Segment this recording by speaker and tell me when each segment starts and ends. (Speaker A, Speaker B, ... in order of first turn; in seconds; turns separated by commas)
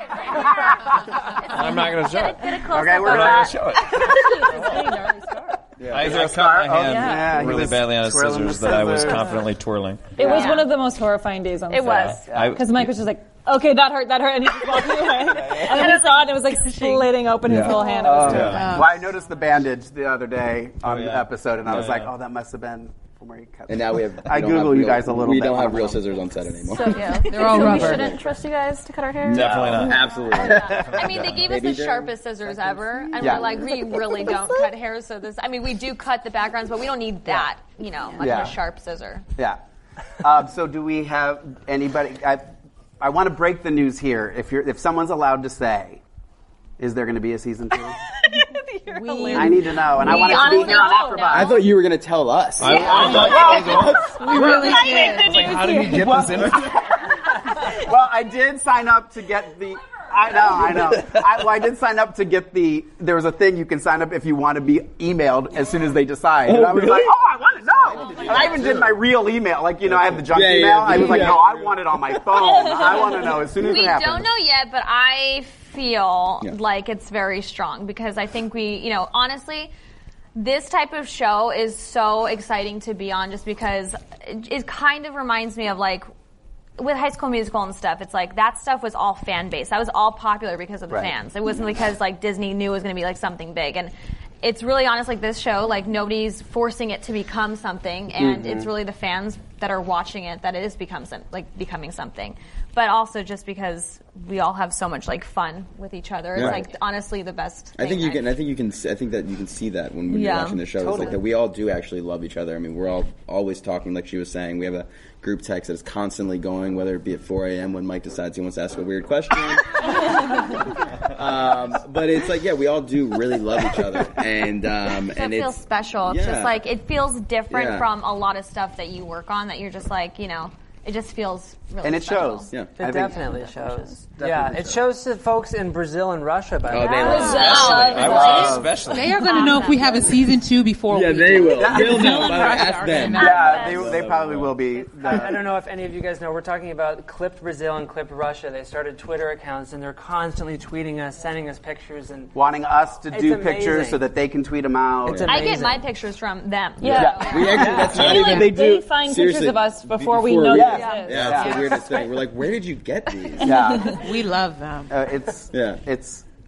Speaker A: 0.3-4.6, Speaker B: 1.4-5.0, Speaker C: 2.6-3.6, Speaker D: 4.0-5.6, Speaker E: 5.8-6.3, Speaker B: 5.9-10.2, Speaker C: 5.9-9.4, Speaker D: 6.8-7.5, Speaker C: 10.2-10.6, Speaker D: 10.2-18.7, Speaker A: 10.2-10.7, Speaker A: 11.7-12.2, Speaker B: 11.8-12.9, Speaker C: 12.3-12.6, Speaker A: 15.3-17.1, Speaker B: 17.4-18.8, Speaker A: 17.7-18.1, Speaker C: 18.0-26.1, Speaker F: 18.4-19.1, Speaker B: 20.8-22.1, Speaker E: 23.7-27.1, Speaker G: 26.5-30.7, Speaker F: 27.2-28.2, Speaker A: 27.4-27.9, Speaker B: 29.2-30.1, Speaker E: 29.2-32.1, Speaker A: 30.2-39.2, Speaker C: 30.6-30.9, Speaker B: 30.7-31.5, Speaker C: 33.2-34.3, Speaker C: 38.2-38.6, Speaker C: 40.2-42.4, Speaker C: 43.0-46.0, Speaker C: 46.8-48.0, Speaker A: 48.0-51.6, Speaker F: 48.9-50.7, Speaker C: 49.3-51.6, Speaker E: 51.3-54.3, Speaker B: 52.6-56.7, Speaker C: 52.6-74.3, Speaker A: 52.8-56.0, Speaker F: 54.2-55.4, Speaker D: 54.2-55.4, Speaker E: 66.4-69.0, Speaker E: 69.8-72.2, Speaker A: 72.3-79.7, Speaker A: 80.3-86.1, Speaker A: 86.8-108.3, Speaker C: 98.2-98.7, Speaker E: 106.3-106.6, Speaker C: 106.4-106.6, Speaker E: 107.8-120.5, Speaker A: 110.1-110.7, Speaker C: 110.8-111.2, Speaker E: 121.0-126.6, Speaker A: 125.1-132.5, Speaker E: 127.5-127.9, Speaker C: 131.8-134.8, Speaker H: 132.7-138.1, Speaker G: 133.2-133.8, Speaker E: 136.7-138.2, Speaker A: 136.7-140.2, Speaker D: 137.0-137.6, Speaker C: 137.2-138.9, Speaker B: 137.3-139.2, Speaker F: 138.8-143.8, Speaker E: 140.9-144.6, Speaker C: 141.5-142.5, Speaker C: 143.1-145.4, Speaker A: 143.2-143.9, Speaker H: 145.0-152.3, Speaker C: 152.3-155.5, Speaker H: 153.1-154.1, Speaker H: 155.0-155.8, Speaker A: 155.3-157.8, Speaker E: 156.8-163.8, Speaker D: 156.8-161.3, Speaker C: 156.9-158.7, Speaker F: 157.7-158.6, Speaker C: 160.5-161.6, Speaker A: 160.7-161.3, Speaker F: 161.3-162.0, Speaker C: 163.4-164.1, Speaker F: 163.4-164.9, Speaker C: 164.9-166.2, Speaker E: 165.5-165.8